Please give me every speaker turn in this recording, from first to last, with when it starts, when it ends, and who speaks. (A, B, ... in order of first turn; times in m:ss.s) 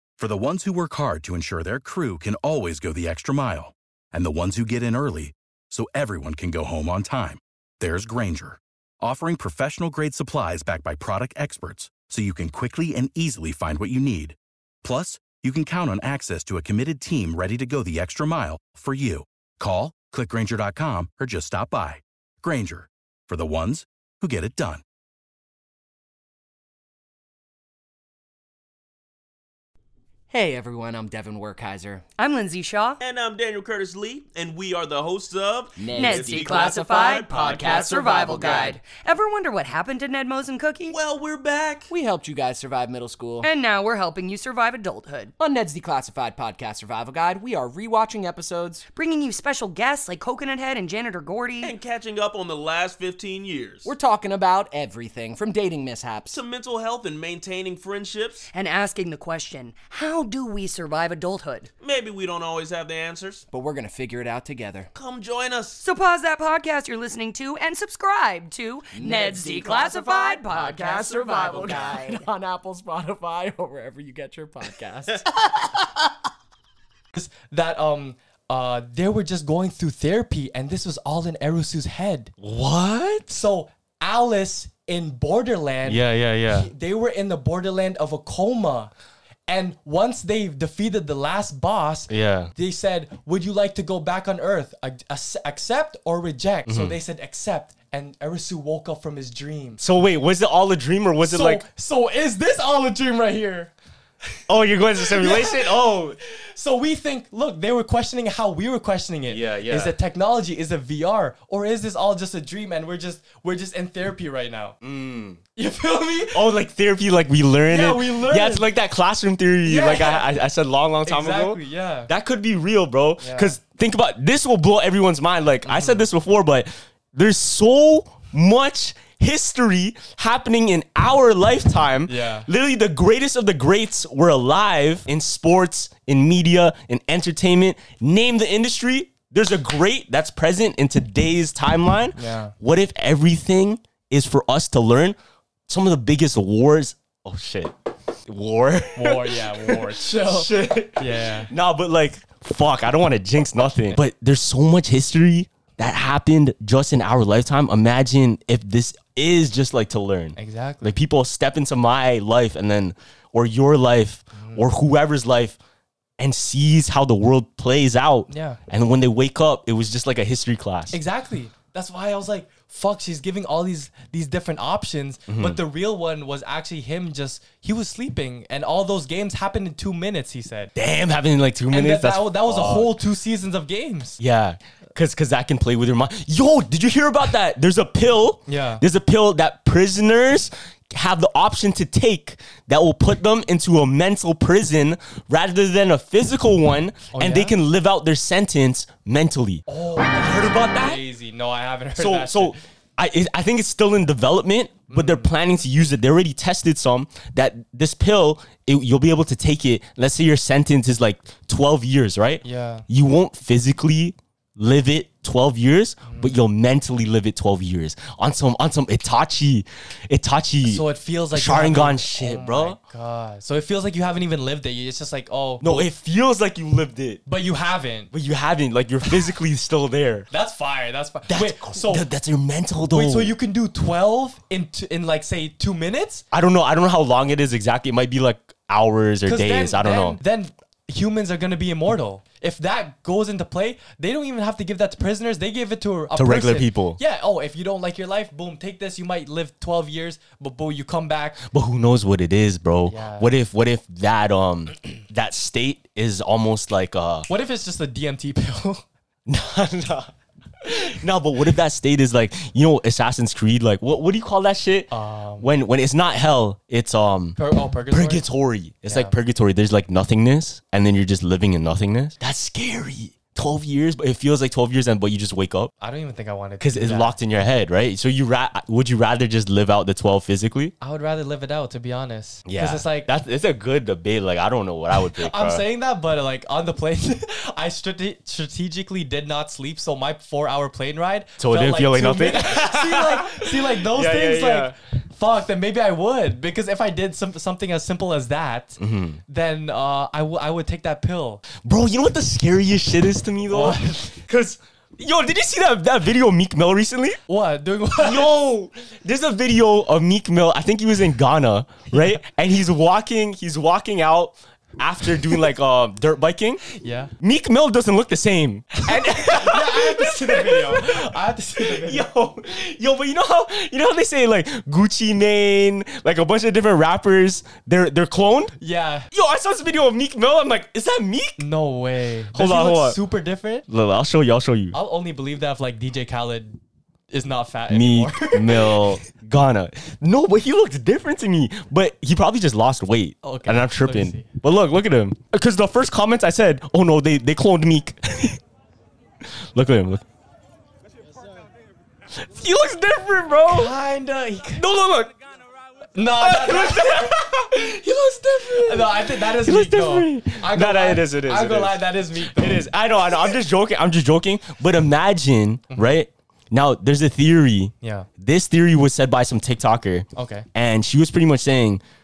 0:00.2-0:24.8 A
0:30.3-0:32.0 B
0:32.2-0:33.0 C
0:33.0-0:38.8 D
0:35.8-0:38.7 B
0:35.9-0:41.0 C
0:40.9-0:41.9 D
0:41.9-0:43.5 B
0:43.4-0:45.3 C
0:45.4-0:48.9 B
0:49.0-0:51.8 C
0:51.6-0:53.9 D
0:53.8-0:56.4 B
0:56.3-0:58.5 D
0:58.5-1:01.7 C
1:01.8-1:03.5 D
1:03.5-1:04.9 B
1:04.9-1:05.9 D
1:05.8-1:12.2 C
1:08.9-1:15.2 B
1:11.0-1:12.0 D
1:17.1-1:22.3 E
1:22.4-1:23.4 F
1:23.3-1:28.9 E
1:25.8-1:26.7 F
1:29.5-1:39.8 E
1:32.1-1:32.5 F
1:36.7-1:37.0 F
1:39.8-1:41.6 F
1:41.2-1:43.7 E
1:44.5-1:46.2 F
1:45.0-1:45.8 E
1:46.4-1:54.8 E
1:49.3-1:49.9 F
1:54.8-1:55.4 F
1:55.6-1:56.5 E
1:56.3-2:25.2 F
1:57.7-1:58.6 E
1:59.6-2:00.3 E
2:01.0-2:02.1 E
2:03.2-2:03.6 E
2:05.6-2:06.1 E
2:12.1-2:12.5 E
2:22.2-2:22.6 E
2:25.7-2:27.7 F
2:28.3-2:45.6 F
2:29.0-2:31.5 E
2:40.4-2:41.0 E
2:44.4-2:44.6 E
2:46.2-2:51.0 F
2:48.3-2:48.6 E
2:50.9-3:00.7 E
2:55.3-2:55.6 F
3:00.8-3:03.0 F
3:01.7-3:04.2 E
3:04.2-3:21.0 F
3:08.5-3:08.8 E
3:17.1-3:17.6 E
3:19.7-3:22.6 E
3:22.0-3:42.8 F
3:24.9-3:25.3 E
3:32.4-3:32.9 E
3:36.0-3:36.4 E
3:40.6-3:45.9 E
3:45.6-3:47.2 F
3:47.3-3:48.1 E
3:48.1-3:50.3 F
3:50.3-3:52.1 E
3:51.3-3:53.4 F
3:52.9-3:56.2 E
3:56.3-4:00.2 F
3:59.2-4:11.4 E
4:06.1-4:07.0 F
4:11.5-4:17.3 F
4:12.9-4:13.3 E
4:17.3-4:18.8 E
4:19.3-4:27.4 F
4:24.9-4:25.5 E
4:27.4-4:28.2 E
4:27.9-4:35.7 F
4:28.8-4:29.1 E
4:35.8-4:37.2 E
4:36.6-4:40.7 F
4:40.8-4:43.1 E
4:42.4-4:45.6 F
4:45.1-5:01.4 E
4:51.4-4:54.8 F
4:58.8-4:59.2 F
5:01.6-5:07.2 F
5:03.5-5:04.2 E
5:07.3-5:08.3 E
5:08.0-5:16.6 F
5:11.9-5:12.2 E
5:16.7-5:17.1 E
5:17.2-5:28.6 F
5:18.8-5:22.0 E
5:28.6-5:29.1 E
5:29.1-5:31.4 F
5:31.4-5:33.6 E
5:32.3-5:33.0 F
5:33.7-5:34.8 F
5:34.7-5:36.6 E
5:37.1-5:38.9 E
5:37.7-5:48.4 F
5:43.2-5:44.3 E
5:49.2-5:50.0 F
5:52.2-5:53.8 F
5:53.5-5:54.6 E
5:54.6-5:55.1 F
5:56.0-5:57.3 E
5:56.2-6:11.8 F
5:58.4-6:03.3 E
6:07.8-6:08.1 E
6:10.1-6:10.5 E